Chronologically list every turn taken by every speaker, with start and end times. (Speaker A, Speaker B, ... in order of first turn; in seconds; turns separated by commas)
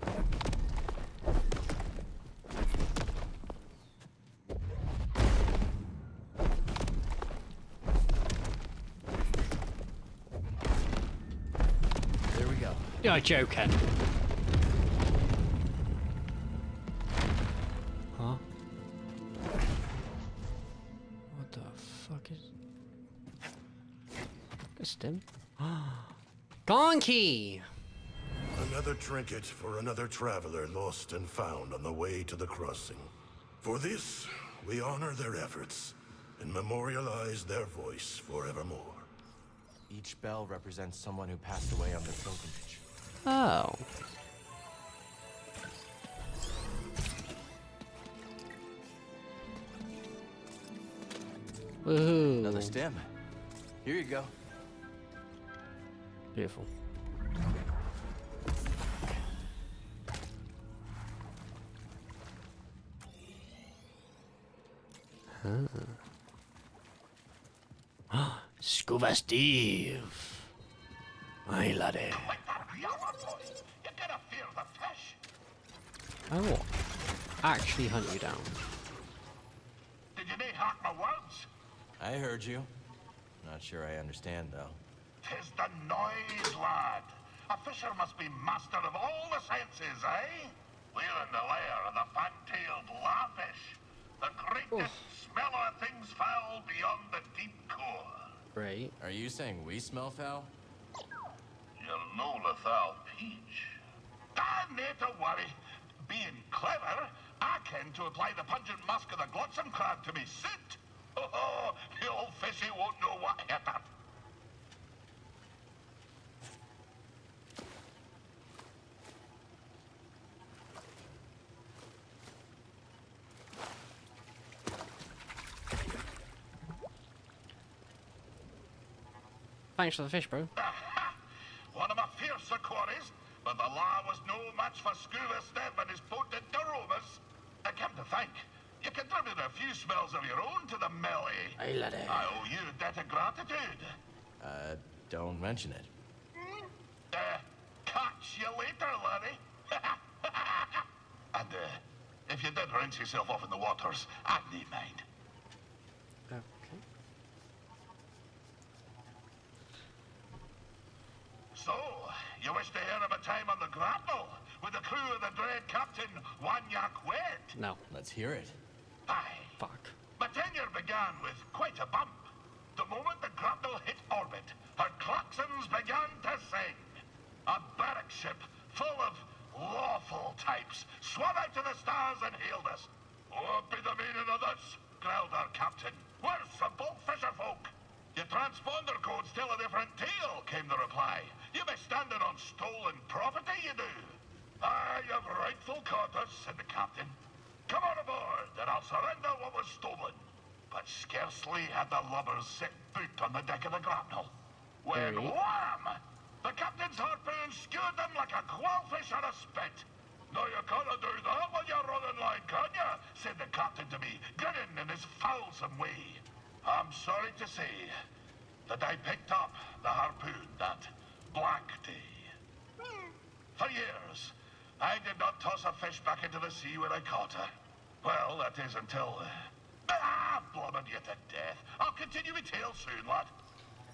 Speaker A: 12.3-13.0, Speaker B: 13.0-13.7, Speaker B: 18.1-18.4, Speaker B: 21.3-22.5, Speaker B: 24.8-27.7, Speaker C: 28.5-39.1, Speaker A: 39.9-42.8, Speaker B: 43.2-43.9, Speaker B: 51.8-52.8, Speaker A: 52.4-53.1, Speaker A: 53.8-54.3, Speaker B: 56.3-56.7, Speaker B: 65.3-66.0, Speaker B: 68.1-70.4, Speaker B: 71.5-72.3, Speaker D: 72.1-75.2, Speaker B: 76.3-76.7, Speaker B: 77.4-78.5, Speaker D: 80.1-81.5, Speaker A: 82.0-82.7, Speaker A: 83.4-84.8, Speaker D: 85.2-98.3, Speaker B: 94.7-95.0, Speaker B: 98.5-98.9, Speaker A: 99.0-100.5, Speaker D: 101.8-103.8, Speaker D: 104.3-113.9, Speaker B: 129.8-130.5, Speaker D: 130.6-131.2, Speaker D: 131.7-143.9, Speaker B: 141.6-142.4, Speaker A: 144.4-145.9, Speaker D: 147.1-155.0, Speaker B: 156.3-156.8, Speaker D: 161.5-167.5, Speaker B: 167.5-167.8, Speaker A: 167.9-168.6, Speaker D: 169.1-169.6, Speaker B: 169.6-169.9, Speaker D: 170.2-176.9, Speaker D: 177.4-197.2, Speaker D: 197.7-217.9, Speaker B: 204.9-205.3, Speaker D: 218.7-222.3, Speaker D: 223.5-227.5, Speaker D: 228.0-233.3